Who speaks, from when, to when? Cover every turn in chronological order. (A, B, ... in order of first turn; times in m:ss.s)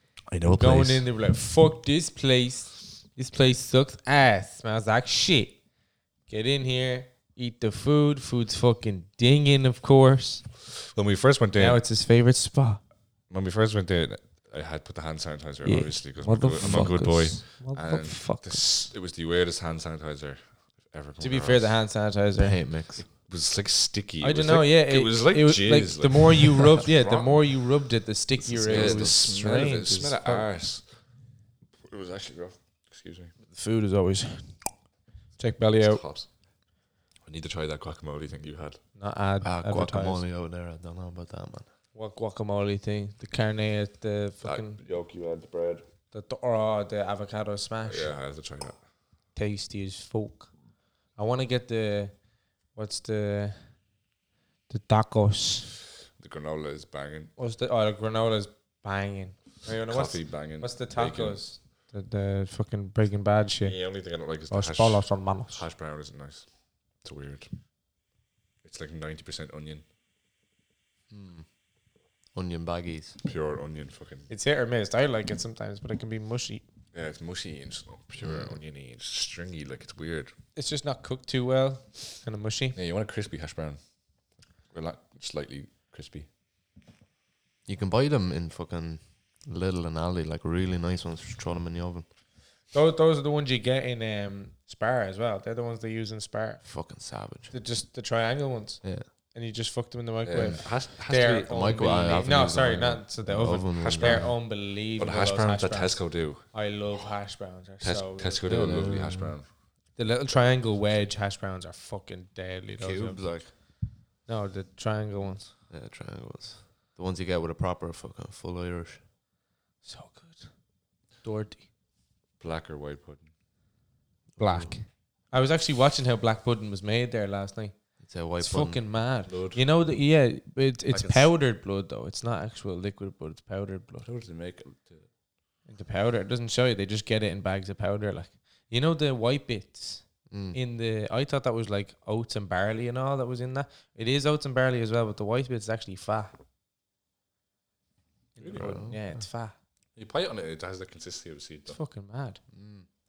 0:00.3-0:01.0 A
0:00.5-0:05.6 B
0:06.3-0:10.5 B
0:10.9-0:11.8 C
0:11.6-0:12.8 B
0:13.3-0:21.8 C
0:15.6-0:18.6 B
0:16.6-0:17.2 A
0:21.2-0:22.6 B
0:22.4-0:23.0 A
0:23.1-0:27.5 C
0:24.2-0:30.4 B
0:28.4-0:29.4 A
0:28.7-0:31.1 C
0:31.8-0:33.3 C
0:33.5-0:34.8 B
0:35.4-0:36.0 B
0:35.8-0:36.3 C
0:37.3-0:38.8 C
0:39.0-0:40.2 B
0:39.4-0:41.7 A
0:41.9-0:44.8 B
0:44.4-0:45.8 C
0:46.1-0:48.1 B
0:47.9-0:48.8 C
0:49.3-0:50.5 B
0:51.1-0:52.2 B
0:52.7-0:53.8 B
0:54.7-0:55.7 B
0:56.2-0:57.3 C
0:57.4-1:03.8 B
0:59.9-1:01.4 C
1:03.6-1:07.5 C
1:04.5-1:05.6 B
1:08.6-1:09.8 C
1:11.1-1:11.5 A
1:12.3-1:13.2 A
1:13.2-1:14.3 C
1:14.3-1:16.6 B
1:16.9-1:20.3 C
1:18.2-1:18.6 A
1:20.6-1:22.8 B
1:22.7-1:23.8 C
1:24.7-1:26.3 C
1:27.7-1:32.0 A
1:32.7-1:36.8 B
1:36.6-1:37.5 A
1:37.5-1:48.6 B
1:40.2-1:41.8 C
1:41.5-1:44.3 A
1:43.8-1:46.4 C
1:47.8-1:49.5 C
1:48.4-1:49.3 A
1:50.0-1:53.5 B
1:52.8-1:53.5 A
1:54.3-1:55.6 B
1:55.7-1:59.0 A
1:59.8-2:00.6 B
2:01.2-2:01.7 B
2:02.4-2:03.3 C
2:04.4-2:04.7 A
2:04.4-2:07.8 B
2:08.0-2:08.8 A
2:08.3-2:14.1 B
2:09.3-2:09.6 C
2:10.9-2:11.3 A
2:14.0-2:15.1 C
2:15.7-2:26.3 B
2:20.3-2:20.6 A
2:28.4-2:29.6 B
2:28.4-2:28.8 C
2:28.6-2:29.0 A
2:30.0-2:31.8 C
2:31.7-2:32.4 B
2:32.5-2:32.9 A